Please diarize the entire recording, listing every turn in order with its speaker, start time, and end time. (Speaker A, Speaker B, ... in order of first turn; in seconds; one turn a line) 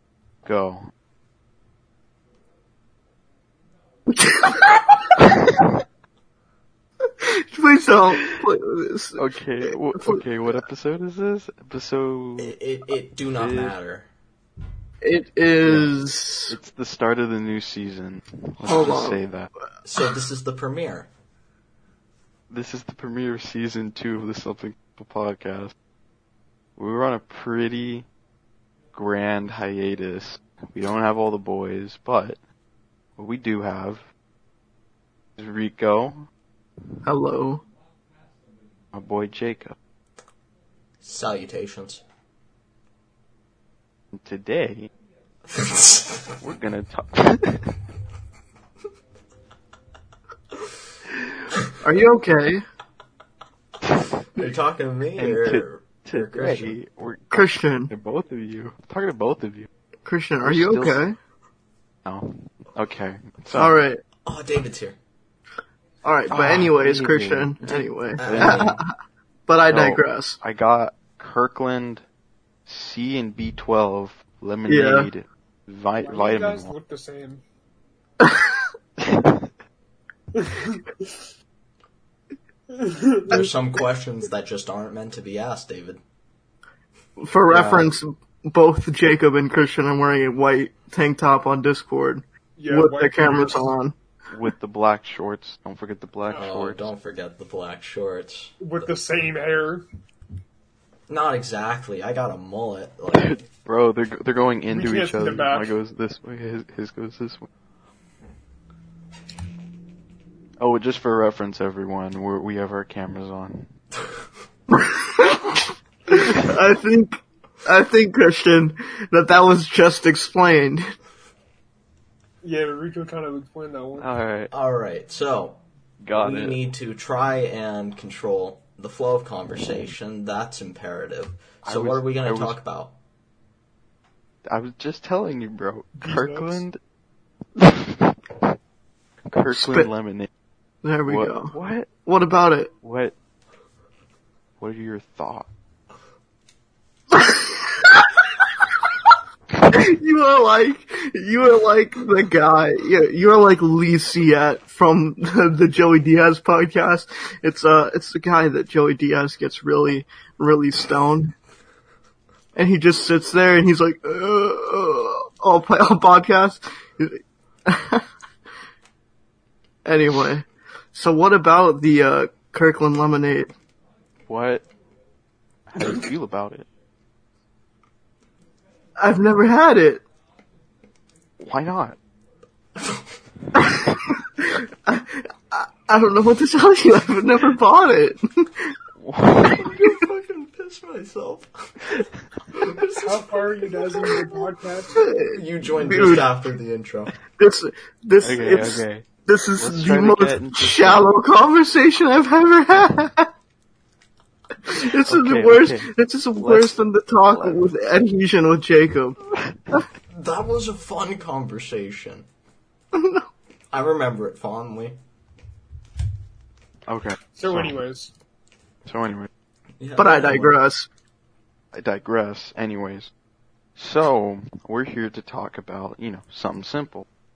Speaker A: 0.4-0.9
Speaker B: 4.1-5.6
Speaker B: 7.2-10.2
Speaker A: 9.2-12.5
Speaker C: 12.4-14.1
Speaker A: 13.3-13.8
Speaker B: 15.0-16.6
Speaker A: 15.6-15.9
Speaker A: 16.5-19.5
Speaker B: 18.6-19.2
Speaker C: 19.8-21.1
Speaker A: 22.5-25.7
Speaker A: 26.8-28.1
Speaker A: 28.9-32.4
Speaker A: 33.2-34.0
Speaker A: 35.4-36.3
Speaker B: 37.0-37.6
Speaker A: 38.9-39.8
Speaker C: 41.0-42.0
Speaker A: 44.1-44.9
Speaker C: 45.5-46.3
Speaker A: 46.4-47.8
Speaker B: 51.8-52.6
Speaker C: 54.4-56.8
Speaker A: 55.2-59.7
Speaker B: 57.3-57.9
Speaker B: 60.0-61.2
Speaker A: 60.4-61.0
Speaker A: 62.0-63.8
Speaker B: 63.5-64.0
Speaker C: 64.2-65.0
Speaker B: 66.0-68.9
Speaker A: 66.3-67.6
Speaker C: 68.2-68.7
Speaker A: 68.2-68.8
Speaker B: 69.5-70.4
Speaker A: 69.7-72.0
Speaker A: 72.7-76.7
Speaker B: 74.7-75.1
Speaker D: 76.0-77.4
Speaker B: 78.2-78.7
Speaker A: 79.0-79.5
Speaker D: 80.3-81.3
Speaker D: 82.7-83.4
Speaker C: 83.3-86.0
Speaker B: 87.2-93.9
Speaker A: 87.5-87.9
Speaker D: 92.6-93.6
Speaker A: 94.3-96.9
Speaker C: 96.3-98.6
Speaker D: 98.6-99.8
Speaker C: 101.1-103.3
Speaker A: 103.1-107.5
Speaker D: 104.7-105.7
Speaker A: 110.6-113.7
Speaker B: 114.7-120.8
Speaker D: 122.4-124.0
Speaker A: 124.0-124.5
Speaker C: 124.5-125.6
Speaker A: 126.0-126.6
Speaker C: 126.1-132.9
Speaker A: 131.6-132.6
Speaker A: 134.4-136.8
Speaker D: 136.0-136.6
Speaker A: 137.6-138.1
Speaker A: 139.3-140.3
Speaker B: 139.5-139.9
Speaker B: 140.8-141.5
Speaker A: 141.1-141.9
Speaker B: 142.1-142.7
Speaker A: 142.8-143.1
Speaker A: 144.6-145.5
Speaker B: 147.1-148.2
Speaker B: 149.6-161.3
Speaker B: 162.5-168.1
Speaker B: 169.8-173.5
Speaker A: 174.3-174.7
Speaker A: 175.7-176.7
Speaker B: 179.0-180.0
Speaker A: 181.4-182.0
Speaker B: 183.5-188.8
Speaker A: 189.0-189.7
Speaker C: 189.4-192.0
Speaker C: 192.5-194.2
Speaker D: 193.0-195.1
Speaker B: 195.0-196.3
Speaker C: 195.2-197.2
Speaker B: 197.4-203.3
Speaker A: 198.2-199.1
Speaker A: 199.6-201.1
Speaker B: 204.6-209.2
Speaker A: 205.0-206.8
Speaker A: 207.3-207.7
Speaker A: 209.3-209.8
Speaker C: 210.1-212.2
Speaker B: 212.9-213.3
Speaker C: 213.7-215.0
Speaker A: 216.9-217.8
Speaker D: 217.3-218.1
Speaker A: 218.8-219.3
Speaker C: 219.8-220.6
Speaker B: 219.9-220.9
Speaker A: 221.7-223.1
Speaker A: 223.8-227.1